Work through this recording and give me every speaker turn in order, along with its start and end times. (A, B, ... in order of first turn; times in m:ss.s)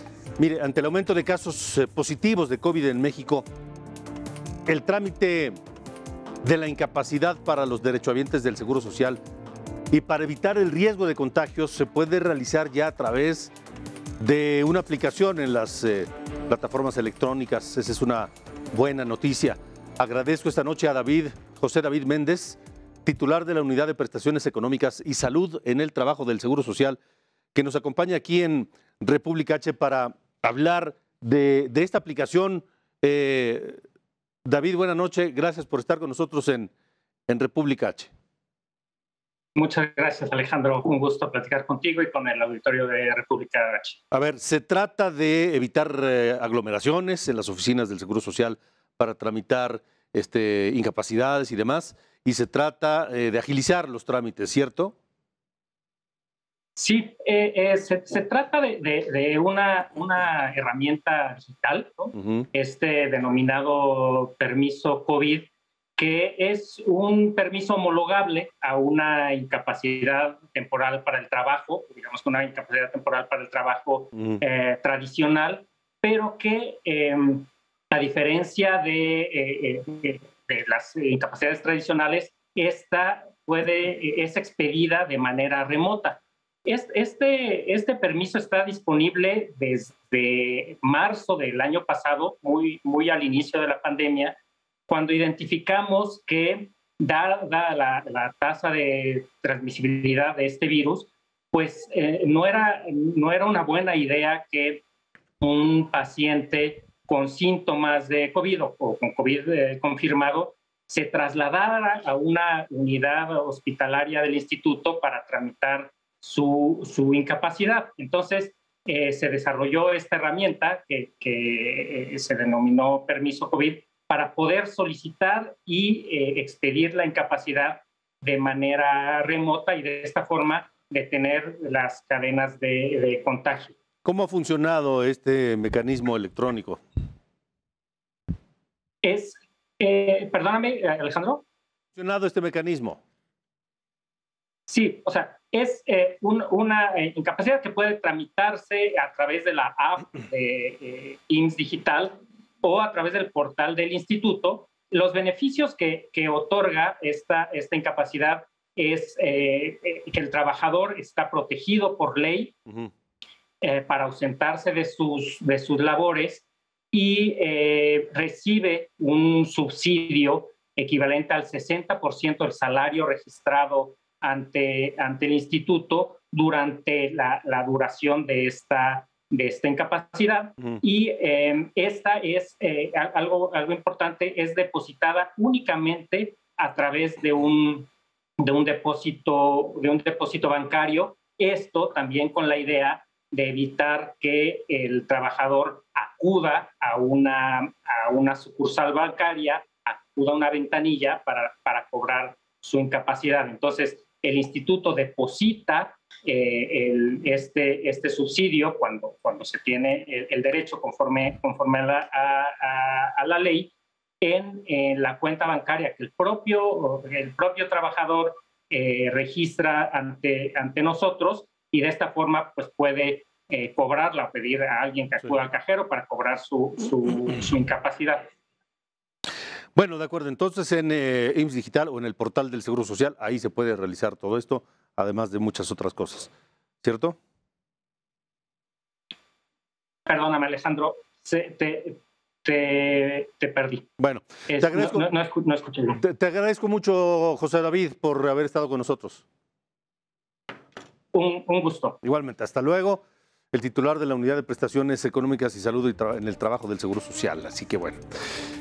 0:00.4-0:03.4 A
0:04.7-0:05.6 A
0:06.4-0:09.2 A
0:09.9-0:13.5 A
0:14.2-0:27.0 A
0:27.5-0:33.8 A
0:34.4-0:36.7 A
0:37.3-0:38.1 A
0:39.6-0:44.0 B
0:44.1-0:55.0 A
0:56.8-1:34.4 B
1:34.9-1:44.8 B
1:45.4-2:13.8 B
2:14.0-2:16.8 A
2:19.0-2:21.4 B
2:22.0-2:23.0 A
2:24.7-2:42.6 B
2:43.6-3:48.3 B
3:49.8-3:56.3 A
3:56.8-3:57.2 A
4:00.1-4:03.9 B
4:04.0-4:05.1 A
4:04.5-4:06.0 B
4:06.0-4:09.2 A
4:11.1-4:12.0 B
4:12.0-4:18.0 A